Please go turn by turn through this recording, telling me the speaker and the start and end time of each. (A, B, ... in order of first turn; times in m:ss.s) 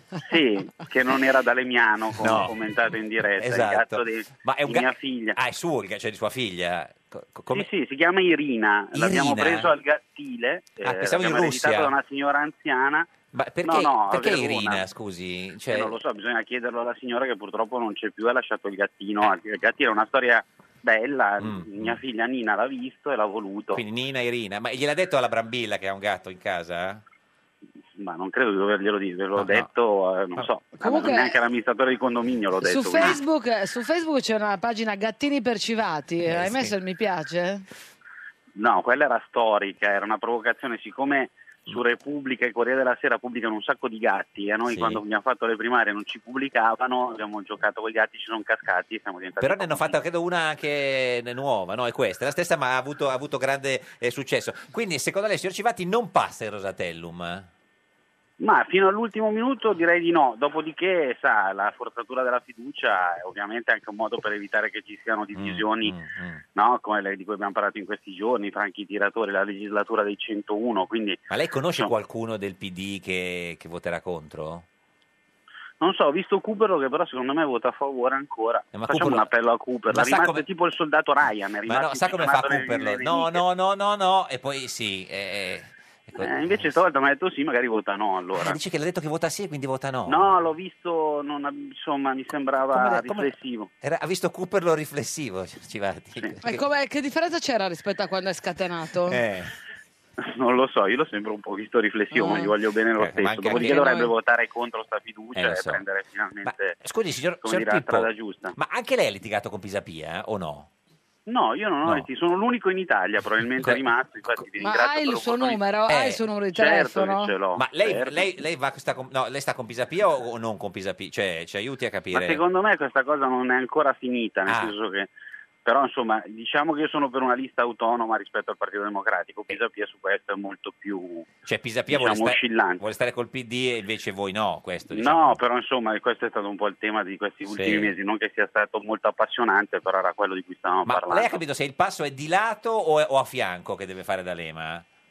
0:00.2-0:05.4 A
0:02.2-0:02.5 B
0:03.4-0:07.7 B
0:07.5-0:13.1 A
0:08.9-0:09.7 B
0:10.8-0:11.9 B
0:13.3-0:15.9 B
0:13.6-0:14.8 A
0:15.7-0:23.8 A
0:21.4-0:22.0 B
0:23.7-0:27.0 B
0:28.0-0:33.2 A
0:29.3-0:29.7 B
0:30.8-0:31.4 C
0:32.6-0:37.6 C
0:36.2-0:36.7 B
0:38.6-0:49.9 A
0:44.7-0:45.0 B
0:49.4-0:57.5 B
0:58.4-1:05.9 A
1:05.3-1:06.4 B
1:06.5-1:11.2 A
1:11.3-1:14.6 B
1:15.8-1:23.4 A
1:18.7-1:19.3 B
1:19.9-1:20.4 B
1:21.7-1:26.7 B
1:26.2-1:28.6 A
1:28.4-1:30.4 B
1:30.1-1:33.7 A
1:32.7-1:36.6 B
1:36.4-1:39.2 C
1:39.0-1:39.5 B
1:40.2-1:46.8 A
1:42.1-1:42.5 C
1:43.0-1:43.9 B
1:43.5-1:44.1 C
1:45.3-1:45.8 B
1:46.4-1:50.7 B
1:47.4-1:48.5 A
1:51.3-1:55.6 A
1:53.6-1:54.4 B
1:54.6-1:57.3 C
1:55.9-1:56.2 B
1:56.5-1:58.2 A
1:57.6-2:02.4 B
2:02.1-2:05.1 A
2:04.5-2:04.7 B
2:05.6-2:11.3 A
2:11.4-2:15.4 B
2:11.9-2:12.8 A
2:14.9-2:21.4 A
2:17.5-2:17.9 B
2:20.8-2:24.8 B